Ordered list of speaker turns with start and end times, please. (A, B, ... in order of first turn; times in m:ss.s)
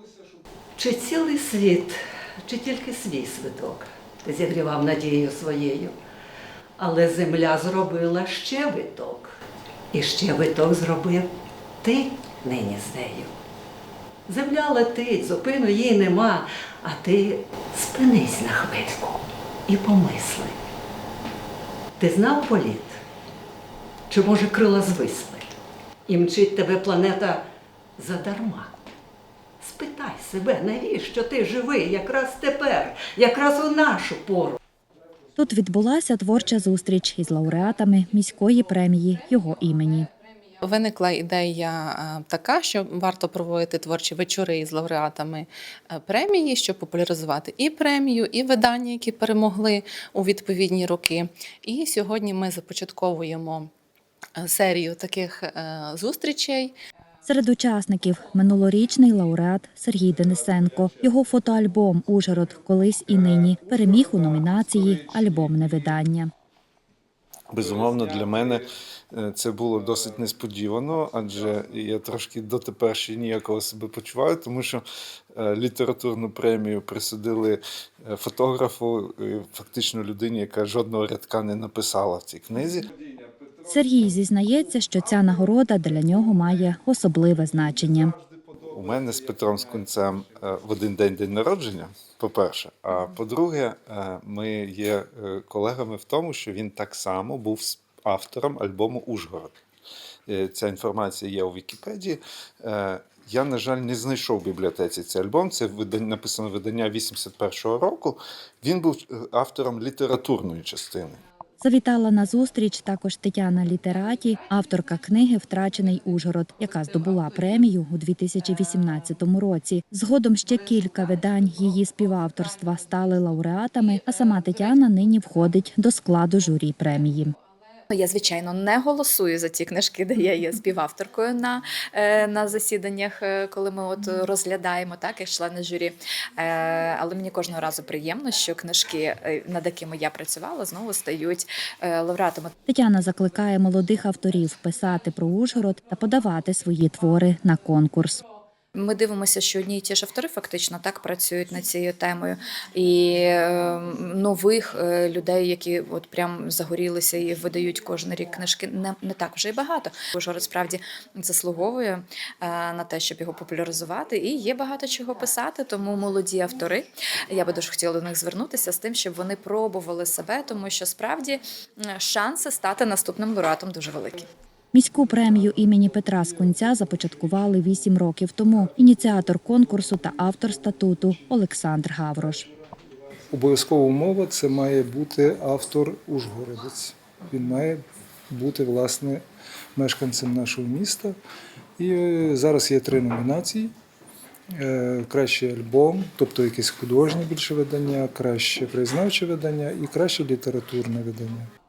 0:00.8-0:05.9 A
0:06.8-0:09.3 A
0:09.9-0:11.3 A
0:11.8-0:13.3 A
0:14.3-0:20.6 A
0:22.0-0:23.0 A
0:24.1-0:25.5 A
0:26.1-0:27.4 A
0:28.0-0:28.7 A
0:29.6-0:34.6 A
0:35.4-0:40.1 B
0:40.6-0:53.7 C
0:54.4-0:56.7 C
0:57.2-1:06.3 B
1:07.5-1:14.8 D
1:15.3-1:22.9 D
1:23.6-1:28.2 B
1:28.6-1:39.5 D
1:40.3-1:51.2 D
1:51.6-2:07.3 B
2:07.9-2:22.5 E
2:22.7-2:28.2 B
2:28.7-2:54.2 E
2:54.7-3:02.4 B
2:55.2-2:57.7 F
3:00.0-3:01.1 F
3:03.3-3:09.2 F
3:09.8-3:11.2 F
3:11.8-3:13.7 F
3:14.6-3:21.5 F